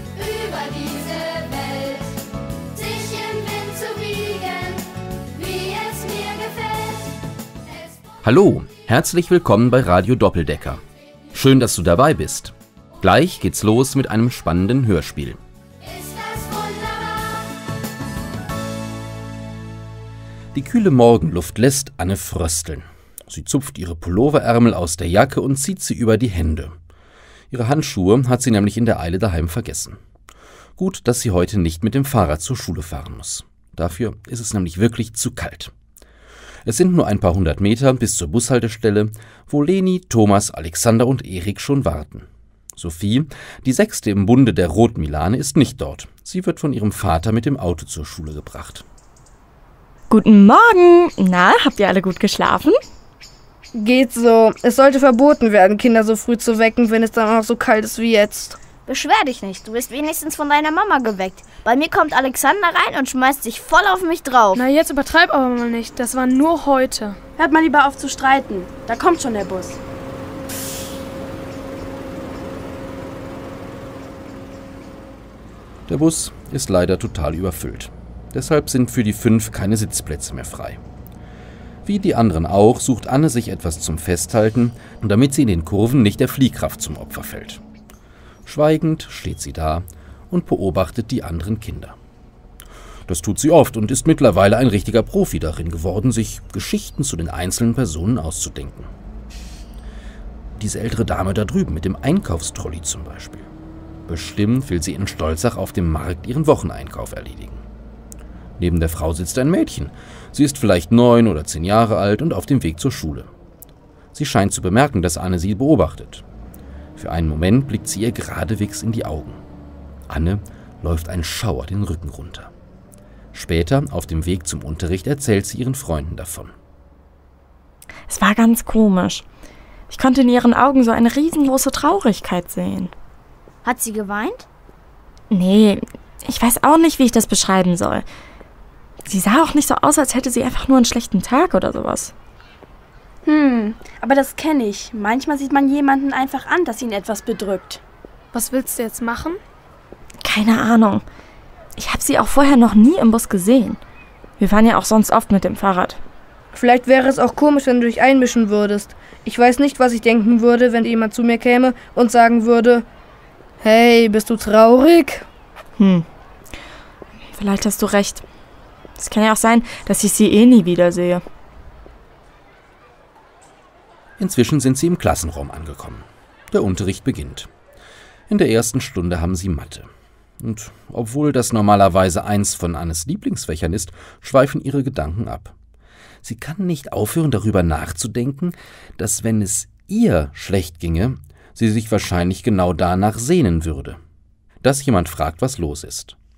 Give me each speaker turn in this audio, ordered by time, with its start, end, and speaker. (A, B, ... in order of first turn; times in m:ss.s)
0:00.2-0:02.0 A
0:02.8-0:04.8 A
0:05.4-0:07.0 A
0:08.2-0:10.8 B
0:11.3-0:15.4 B
0:16.1-0:17.2 A
0:20.6-0:26.8 B
0:27.5-0:30.0 B
0:30.8-0:35.7 B
0:36.6-0:48.8 B
0:50.1-0:52.8 C
0:53.8-0:58.6 D
0:58.8-1:04.6 A
1:04.5-1:07.2 E
1:07.4-1:09.8 F
1:15.9-1:20.8 B
1:21.8-1:27.6 B
1:28.5-1:32.0 B
1:33.1-1:38.9 B
1:40.6-1:43.5 B
1:44.1-1:47.6 B
1:48.6-1:53.3 B
1:54.1-1:56.2 B
1:57.0-1:59.4 B
2:00.1-2:02.5 B
2:03.3-2:06.5 B
2:08.1-2:09.2 C
2:09.9-2:12.9 C
2:13.6-2:14.5 A
2:15.3-2:18.0 C
2:19.0-2:22.1 C
2:23.3-2:27.8 F
2:28.3-2:29.4 E
2:30.2-2:31.0 C
2:31.8-2:33.8 C
2:34.4-2:36.0 C
2:36.5-2:42.8 D
2:43.6-2:45.3 D
2:45.8-2:46.1 C
2:47.4-2:48.2 C
2:49.0-2:51.2 C
2:54.2-2:57.5 B
2:58.3-2:59.9 B
3:00.4-3:05.5 B
3:06.2-3:14.0 B
3:14.6-3:16.2 B